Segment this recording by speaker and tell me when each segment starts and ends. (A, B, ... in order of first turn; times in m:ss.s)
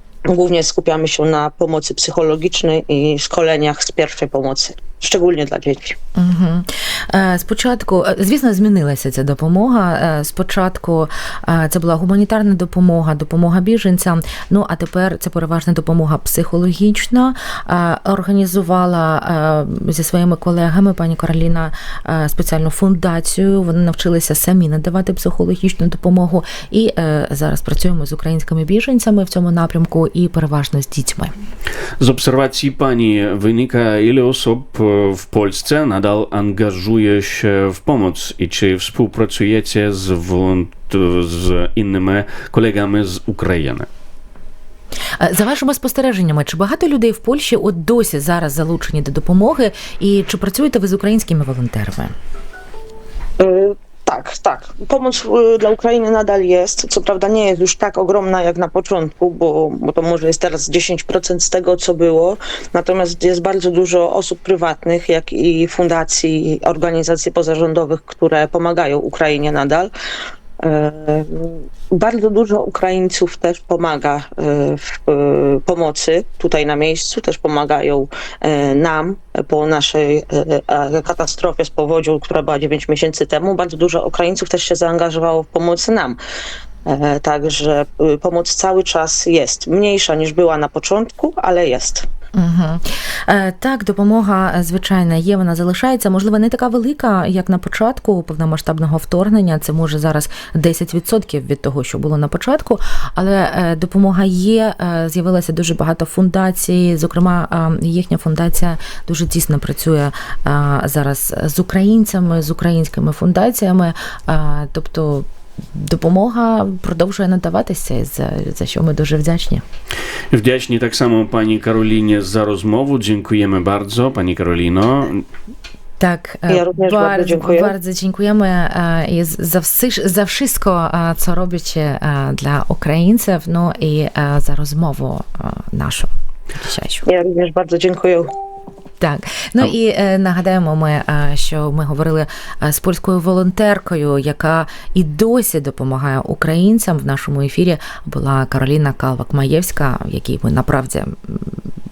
0:00.3-0:06.0 A
0:06.2-0:31.3 B
0:32.0-0:43.9 C
0:45.2-0:52.1 B
0:53.4-1:09.9 A
1:10.6-1:26.2 A
1:26.8-1:32.1 A
1:32.4-1:59.6 B
2:00.3-2:05.2 C
2:06.0-2:17.1 B
2:06.5-2:07.8 A
2:17.0-2:18.3 A
2:19.0-2:31.6 B